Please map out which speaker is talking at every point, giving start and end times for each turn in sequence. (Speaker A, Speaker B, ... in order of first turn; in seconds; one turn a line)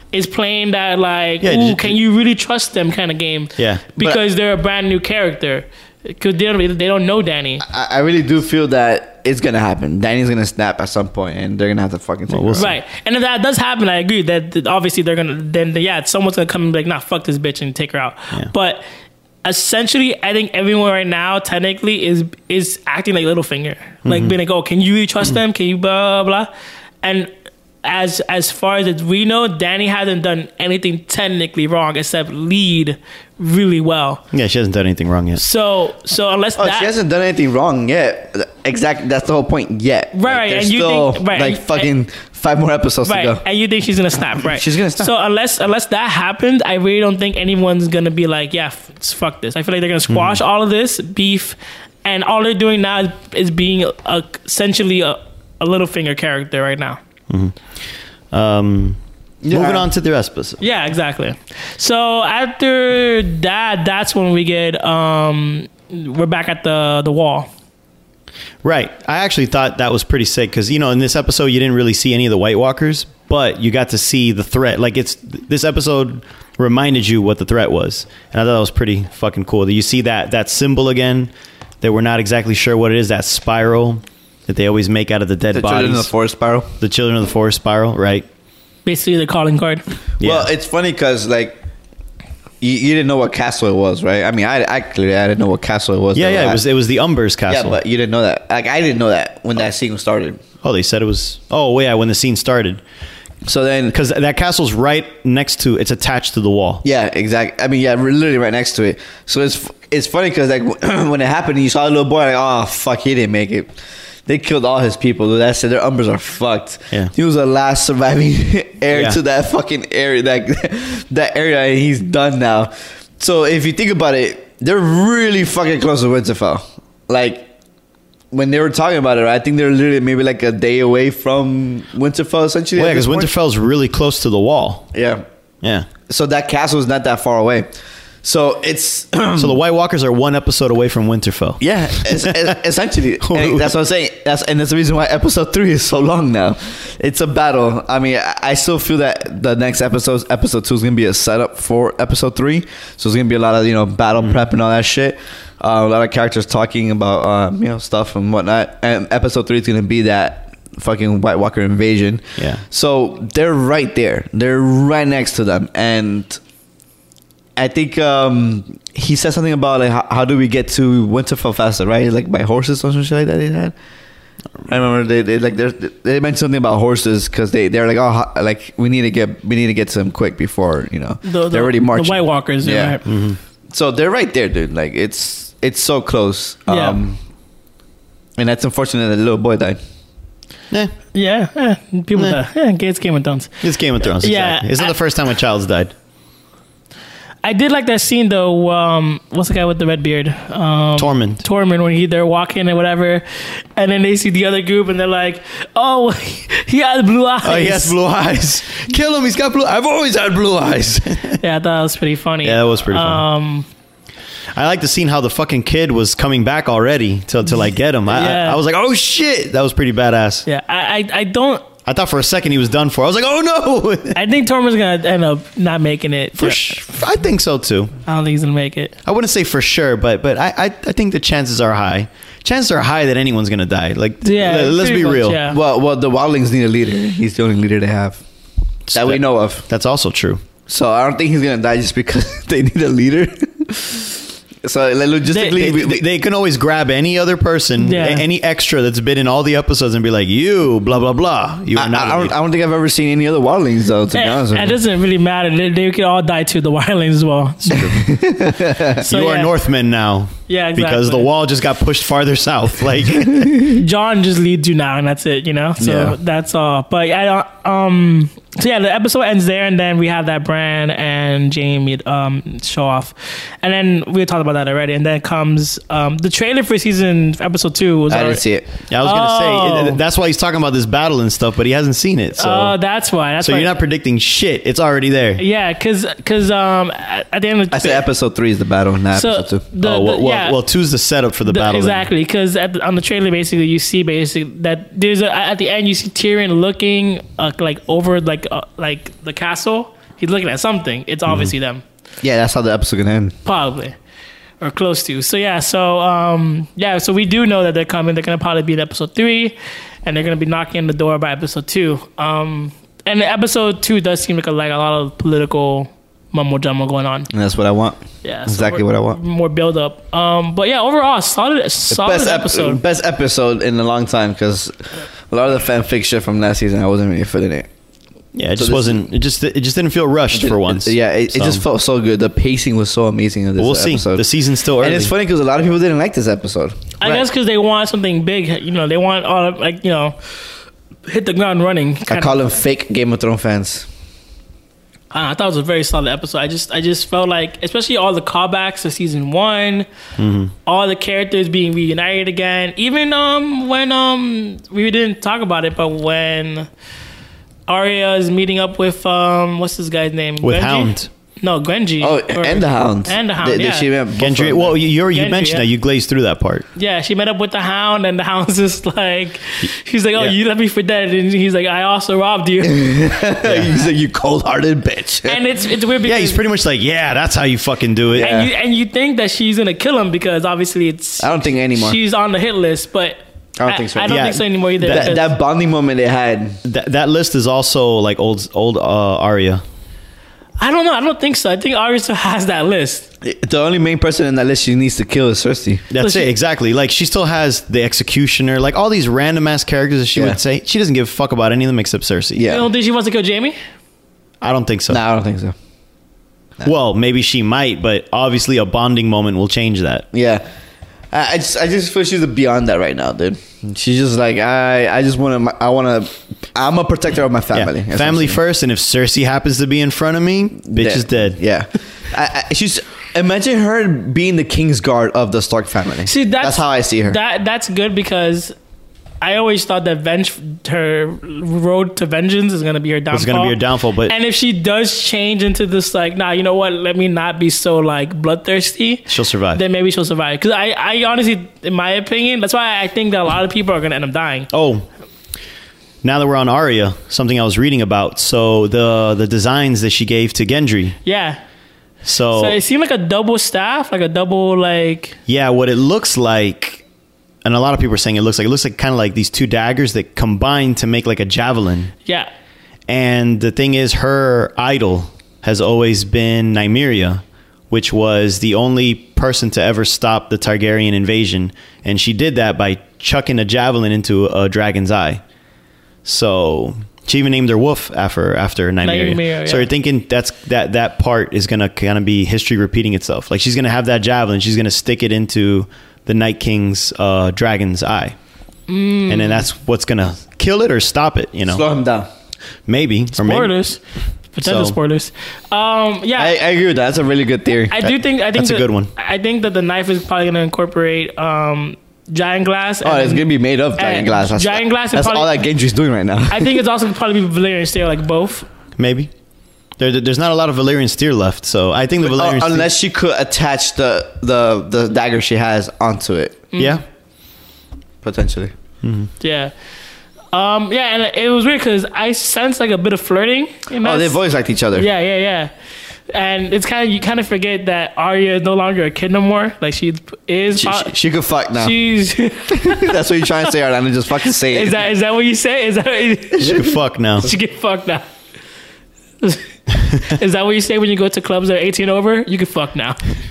Speaker A: 0.1-7.6
Speaker B: 1.4-2.0
Speaker B: 3.6-3.9
Speaker C: 7.6-12.8
Speaker B: 12.3-12.7
Speaker A: 12.6-18.8
Speaker A: 19.4-26.5
Speaker B: 24.1-24.4
Speaker A: 27.0-27.3
Speaker A: 27.8-34.2
Speaker B: 34.3-35.4
Speaker A: 35.4-36.9
Speaker C: 36.6-43.4
Speaker A: 40.1-41.9
Speaker A: 43.1-57.0
Speaker C: 44.4-45.1
Speaker B: 50.1-50.4
Speaker B: 57.3-57.6
Speaker B: 58.3-59.0
Speaker C: 59.4-59.9
Speaker B: 59.5-60.6
Speaker A: 60.6-67.5
Speaker B: 68.6-86.1
Speaker C: 85.5-86.7
Speaker B: 86.8-88.2
Speaker A: 88.8-89.8
Speaker B: 90.2-90.5
Speaker C: 90.2-91.6
Speaker C: 92.6-96.6
Speaker B: 96.2-97.8
Speaker C: 97.5-100.4
Speaker B: 100.6-102.8
Speaker C: 103.5-104.0
Speaker B: 103.9-106.8
Speaker C: 106.8-113.7
Speaker C: 114.3-127.5
Speaker B: 118.9-119.2
Speaker C: 128.3-133.3
Speaker B: 132.8-134.9
Speaker C: 134.9-135.2
Speaker B: 135.6-135.9
Speaker C: 136.1-137.7
Speaker C: 138.2-139.6
Speaker B: 139.4-142.4
Speaker C: 141.6-166.4
Speaker B: 143.2-143.7
Speaker B: 162.4-162.6
Speaker C: 167.6-173.8
Speaker C: 174.7-183.0
Speaker A: 181.2-183.0
Speaker B: 183.1-183.4
Speaker C: 183.7-187.2
Speaker A: 186.7-187.0
Speaker C: 188.4-189.8
Speaker A: 191.1-194.9
Speaker B: 193.6-195.9
Speaker A: 197.4-203.2
Speaker B: 201.0-201.4
Speaker A: 203.8-208.0
Speaker B: 207.4-211.4
Speaker A: 211.4-213.7
Speaker B: 212.4-213.2
Speaker B: 214.6-220.5
Speaker A: 218.1-218.6
Speaker A: 220.5-221.6
Speaker B: 221.9-224.2
Speaker A: 224.2-226.8
Speaker B: 226.4-227.9
Speaker A: 228.1-229.0
Speaker B: 229.1-235.4
Speaker A: 234.2-235.6
Speaker C: 235.5-238.2
Speaker B: 238.9-240.4
Speaker C: 238.9-239.7
Speaker C: 240.7-246.0
Speaker A: 245.3-245.8
Speaker B: 245.6-252.3
Speaker A: 247.8-248.2
Speaker C: 251.8-254.8
Speaker A: 254.1-258.1
Speaker C: 257.7-259.0
Speaker B: 259.0-263.7
Speaker A: 259.1-259.5
Speaker A: 260.5-261.3
Speaker A: 263.6-278.4
Speaker C: 265.8-266.2
Speaker C: 278.1-278.7
Speaker B: 278.9-282.8
Speaker A: 279.0-280.0
Speaker A: 282.4-283.7
Speaker B: 283.4-285.4
Speaker A: 285.4-288.1
Speaker C: 287.7-289.6
Speaker A: 289.1-290.6
Speaker B: 289.8-292.1
Speaker A: 291.5-301.8
Speaker B: 301.3-301.5
Speaker C: 302.2-303.3
Speaker A: 303.4-304.0
Speaker A: 304.6-317.3
Speaker C: 317.3-319.2
Speaker A: 318.2-322.8
Speaker C: 321.9-327.7
Speaker B: 328.3-331.6
Speaker C: 328.6-329.0
Speaker C: 330.3-334.3
Speaker B: 333.6-335.1
Speaker C: 334.8-337.2
Speaker A: 337.0-340.2
Speaker A: 341.1-342.4
Speaker C: 342.1-343.9
Speaker A: 345.1-349.9
Speaker B: 350.2-350.5
Speaker A: 350.6-356.7
Speaker A: 357.7-363.9
Speaker B: 360.4-361.1
Speaker C: 362.0-364.8
Speaker B: 364.1-366.6
Speaker A: 365.1-365.7
Speaker A: 366.8-373.1
Speaker C: 372.6-375.4
Speaker B: 373.4-373.7
Speaker A: 375.2-376.4
Speaker B: 376.0-378.3
Speaker C: 378.1-378.5
Speaker A: 378.2-385.3
Speaker C: 381.2-382.0
Speaker C: 383.6-386.6
Speaker B: 384.1-385.2
Speaker B: 386.6-389.6
Speaker A: 390.6-393.1
Speaker C: 393.2-395.9
Speaker B: 395.9-402.5
Speaker A: 396.0-396.3
Speaker C: 402.4-402.7
Speaker A: 402.5-403.6
Speaker B: 404.4-405.0
Speaker C: 404.9-405.5
Speaker B: 406.6-410.1
Speaker C: 410.1-410.4
Speaker C: 411.1-418.4
Speaker B: 417.5-421.4
Speaker C: 420.6-427.2
Speaker A: 426.1-428.5
Speaker A: 429.2-444.5
Speaker B: 433.1-434.1
Speaker B: 439.1-439.6
Speaker B: 444.5-444.9
Speaker B: 446.0-451.0
Speaker A: 451.1-451.4
Speaker B: 452.1-452.6
Speaker A: 452.3-455.2
Speaker B: 455.3-456.8
Speaker B: 457.4-461.9
Speaker B: 462.9-475.2
Speaker B: 476.1-488.2
Speaker A: 478.8-479.7
Speaker A: 488.7-489.5
Speaker B: 489.1-491.6
Speaker C: 491.5-492.1
Speaker B: 492.7-493.5
Speaker A: 493.2-493.8
Speaker A: 494.3-496.4
Speaker B: 494.4-494.8
Speaker C: 496.2-497.8
Speaker A: 497.7-503.3
Speaker B: 497.8-498.9
Speaker C: 502.8-506.6
Speaker A: 503.8-505.4
Speaker A: 506.3-508.5
Speaker B: 508.8-509.1
Speaker B: 509.8-512.7
Speaker C: 512.0-516.5
Speaker A: 516.5-516.8
Speaker B: 516.6-516.8
Speaker C: 518.0-518.5
Speaker B: 518.8-519.1
Speaker A: 519.2-519.5
Speaker A: 520.3-524.2
Speaker C: 523.8-524.9
Speaker A: 524.8-525.5
Speaker A: 526.1-530.9
Speaker C: 530.5-531.8
Speaker A: 531.6-533.4
Speaker C: 532.5-534.8
Speaker A: 534.3-538.0
Speaker B: 536.4-537.3
Speaker A: 539.2-543.0